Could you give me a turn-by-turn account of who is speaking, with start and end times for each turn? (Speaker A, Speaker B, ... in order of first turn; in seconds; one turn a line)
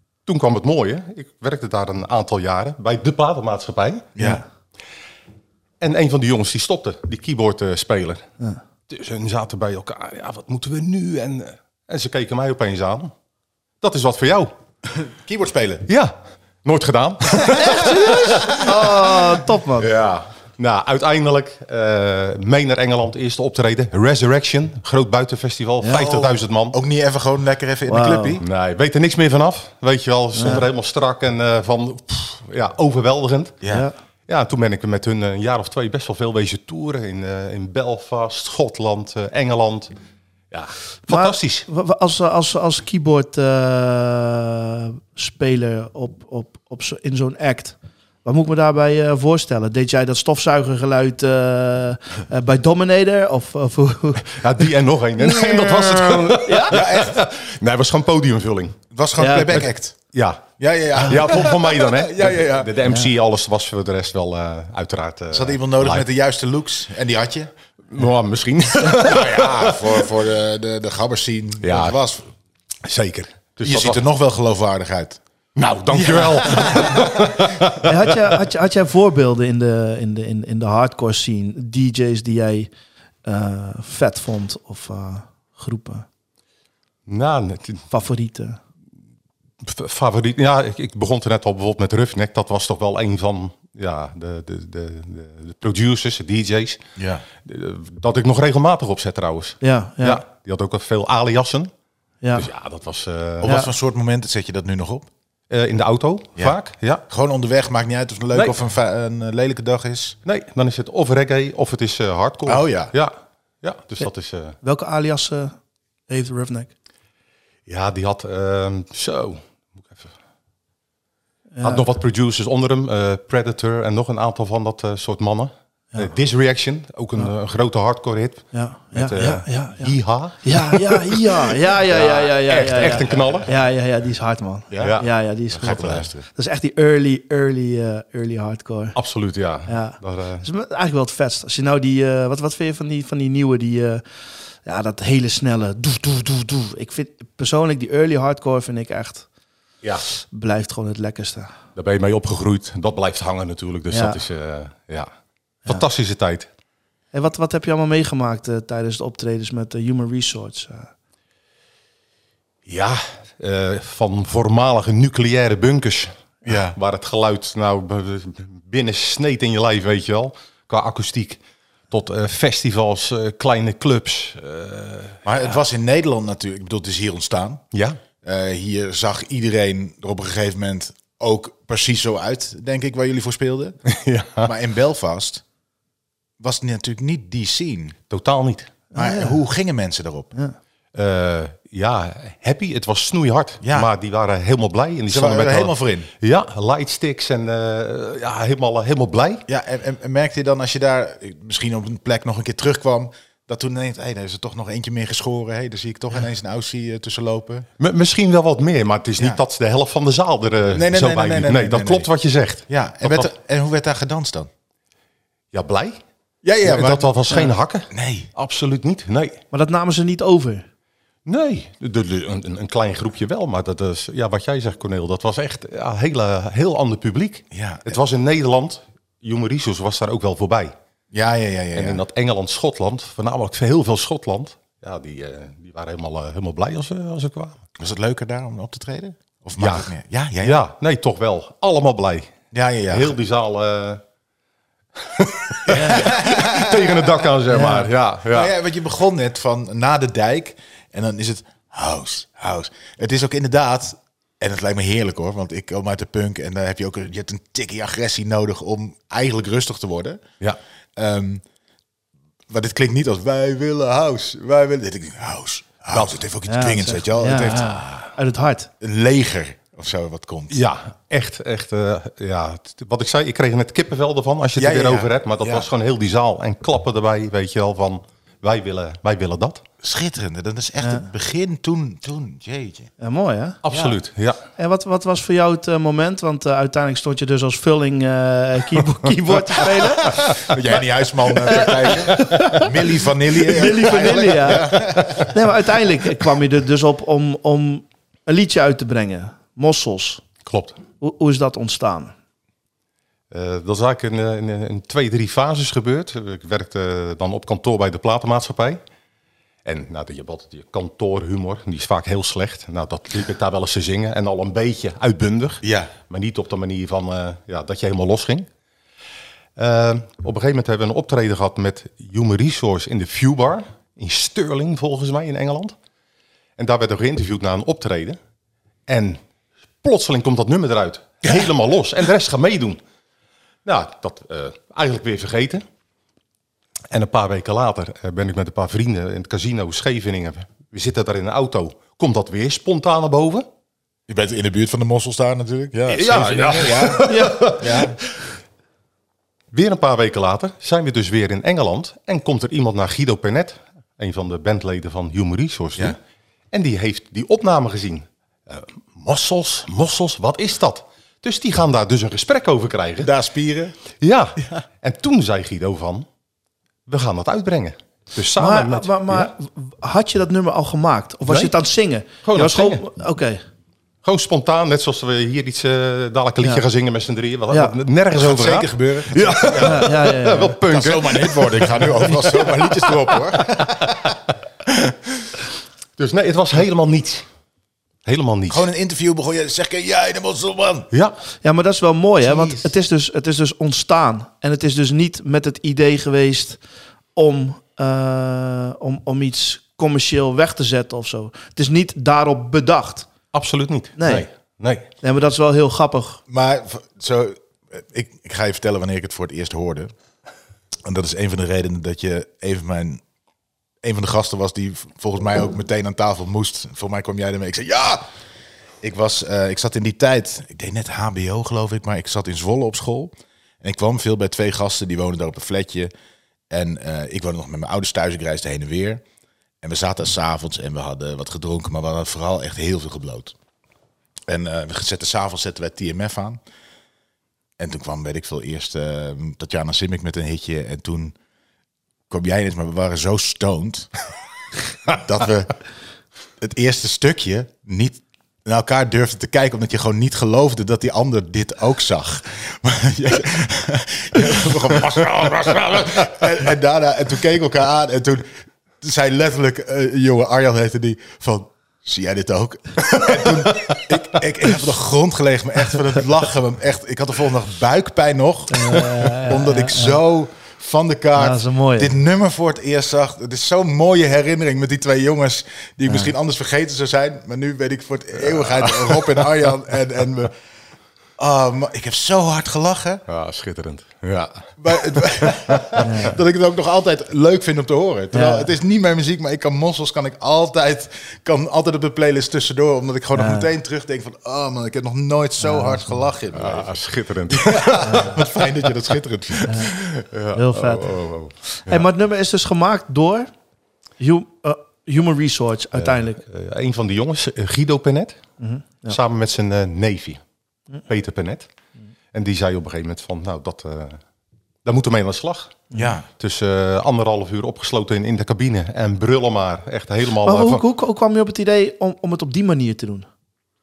Speaker A: 0.2-4.1
Speaker B: 4.2-4.4
Speaker C: 4.2-4.4
Speaker A: 5.8-8.2
Speaker A: 8.9-13.1
Speaker A: 13.8-14.5
Speaker B: 14.8-15.8
Speaker A: 15.9-19.1
Speaker B: 17.6-18.6
Speaker C: 17.6-19.9
Speaker A: 19.8-26.8
Speaker B: 25.9-28.4
Speaker C: 27.9-28.4
Speaker A: 28.4-33.6
Speaker C: 30.3-30.6
Speaker B: 33.6-33.9
Speaker A: 34.3-39.9
Speaker A: 40.5-41.7
Speaker C: 41.1-54.4
Speaker A: 54.2-58.8
Speaker B: 55.3-57.2
Speaker C: 56.4-56.8
Speaker B: 58.9-60.0
Speaker C: 59.2-59.7
Speaker A: 59.5-60.4
Speaker B: 60.6-62.9
Speaker A: 61.0-66.0
Speaker B: 65.3-67.5
Speaker A: 67.9-70.0
Speaker B: 68.9-72.2
Speaker A: 71.6-72.0
Speaker A: 72.8-74.0
Speaker B: 73.6-75.2
Speaker A: 75.5-78.3
Speaker B: 75.9-77.4
Speaker C: 77.8-82.7
Speaker C: 83.2-86.0
Speaker A: 87.0-87.8
Speaker C: 87.9-88.6
Speaker A: 89.6-96.8
Speaker B: 97.0-97.2
Speaker A: 97.4-101.7
Speaker C: 99.6-100.2
Speaker C: 102.2-102.5
Speaker A: 102.3-103.5
Speaker B: 103.4-105.1
Speaker C: 103.4-103.7
Speaker A: 105.5-107.0
Speaker B: 107.1-110.2
Speaker A: 110.2-114.6
Speaker B: 112.5-112.9
Speaker C: 114.6-115.5
Speaker C: 116.1-116.7
Speaker A: 117.7-120.1
Speaker C: 121.5-121.8
Speaker A: 121.6-133.5
Speaker C: 128.5-135.8
Speaker B: 132.8-133.3
Speaker B: 134.7-135.0
Speaker A: 134.8-136.1
Speaker B: 135.5-136.2
Speaker C: 136.3-138.9
Speaker A: 138.9-140.4
Speaker C: 139.7-144.0
Speaker C: 144.6-149.3
Speaker C: 150.2-151.5
Speaker A: 151.8-155.1
Speaker C: 153.9-154.2
Speaker A: 155.7-156.5
Speaker C: 157.1-160.9
Speaker A: 162.7-175.2
Speaker B: 166.4-166.8
Speaker B: 175.2-177.6
Speaker A: 177.7-178.0
Speaker B: 178.2-183.8
Speaker A: 183.9-184.5
Speaker B: 184.4-185.4
Speaker B: 186.4-187.9
Speaker A: 188.1-188.7
Speaker C: 188.9-189.4
Speaker B: 188.9-190.3
Speaker A: 190.9-199.4
Speaker B: 193.6-193.9
Speaker B: 195.1-196.1
Speaker B: 199.5-207.7
Speaker A: 207.8-213.3
Speaker B: 210.7-212.1
Speaker B: 212.7-214.5
Speaker A: 215.5-216.0
Speaker B: 216.4-218.3
Speaker A: 216.6-219.4
Speaker C: 219.5-220.7
Speaker A: 221.2-230.7
Speaker B: 227.5-228.0
Speaker B: 231.1-232.0
Speaker A: 231.7-237.6
Speaker B: 237.8-240.6
Speaker A: 239.6-239.9
Speaker A: 240.4-242.3
Speaker B: 242.5-243.1
Speaker A: 242.9-244.0
Speaker A: 245.0-248.5
Speaker B: 245.7-260.2
Speaker C: 245.8-246.1
Speaker B: 260.9-261.4
Speaker B: 262.5-268.0
Speaker A: 265.9-266.2
Speaker C: 266.5-268.7
Speaker B: 268.8-270.6
Speaker A: 270.5-279.6
Speaker B: 274.6-275.7
Speaker B: 279.8-282.9
Speaker C: 280.8-281.1
Speaker C: 283.0-283.6
Speaker A: 283.6-284.4
Speaker C: 284.6-290.3
Speaker B: 290.2-295.3
Speaker C: 291.6-292.7
Speaker A: 292.2-292.6
Speaker C: 293.4-300.2
Speaker A: 300.4-300.8
Speaker C: 301.0-302.1
Speaker A: 303.3-308.8
Speaker A: 309.6-318.5
Speaker B: 315.6-315.9
Speaker A: 319.6-325.7
Speaker A: 326.6-328.2
Speaker A: 328.9-329.2
Speaker A: 329.8-332.8
Speaker A: 333.6-335.6
Speaker A: 336.9-343.5
Speaker B: 344.1-347.9
Speaker A: 345.9-347.9
Speaker C: 347.0-347.6
Speaker A: 349.5-356.0
Speaker A: 356.5-363.1
Speaker B: 363.0-363.8
Speaker A: 364.0-366.1
Speaker A: 366.9-369.3
Speaker C: 368.4-373.4
Speaker A: 371.3-371.5
Speaker A: 372.2-372.8
Speaker A: 374.0-384.1
Speaker C: 377.5-377.7
Speaker B: 378.2-379.9
Speaker C: 379.6-380.6
Speaker B: 380.7-384.0
Speaker A: 386.0-387.2
Speaker A: 388.0-388.7
Speaker B: 388.5-390.9
Speaker C: 391.4-396.6
Speaker B: 392.2-392.6
Speaker C: 397.1-403.1
Speaker A: 403.3-404.9
Speaker C: 404.0-404.2
Speaker C: 405.0-406.2
Speaker B: 406.3-409.9
Speaker B: 410.8-413.0
Speaker B: 413.8-418.1
Speaker B: 418.8-425.9
Speaker B: 426.5-429.0
Speaker B: 429.6-433.3
Speaker B: 434.3-436.4
Speaker B: 437.6-441.1
Speaker B: 442.1-443.9
Speaker B: 444.9-445.5
Speaker B: 446.4-480.3
Speaker A: 462.9-463.8
Speaker C: 468.5-470.0
Speaker C: 471.1-472.0
Speaker A: 478.5-479.1
Speaker B: 481.2-483.0
Speaker A: 483.1-485.9
Speaker B: 484.6-496.7
Speaker C: 485.8-486.1
Speaker C: 488.1-488.5
Speaker C: 493.1-493.5
Speaker C: 495.4-495.9
Speaker A: 496.3-498.7
Speaker B: 497.3-499.7
Speaker C: 497.8-498.2
Speaker A: 499.4-501.8
Speaker C: 499.5-499.7
Speaker C: 500.3-503.3
Speaker C: 504.0-506.2
Speaker A: 505.8-508.2
Speaker C: 508.4-509.0
Speaker A: 508.9-510.2
Speaker A: 510.9-511.5
Speaker A: 512.1-514.0
Speaker A: 514.6-515.6
Speaker B: 515.7-516.0
Speaker A: 516.2-520.6
Speaker C: 520.2-523.1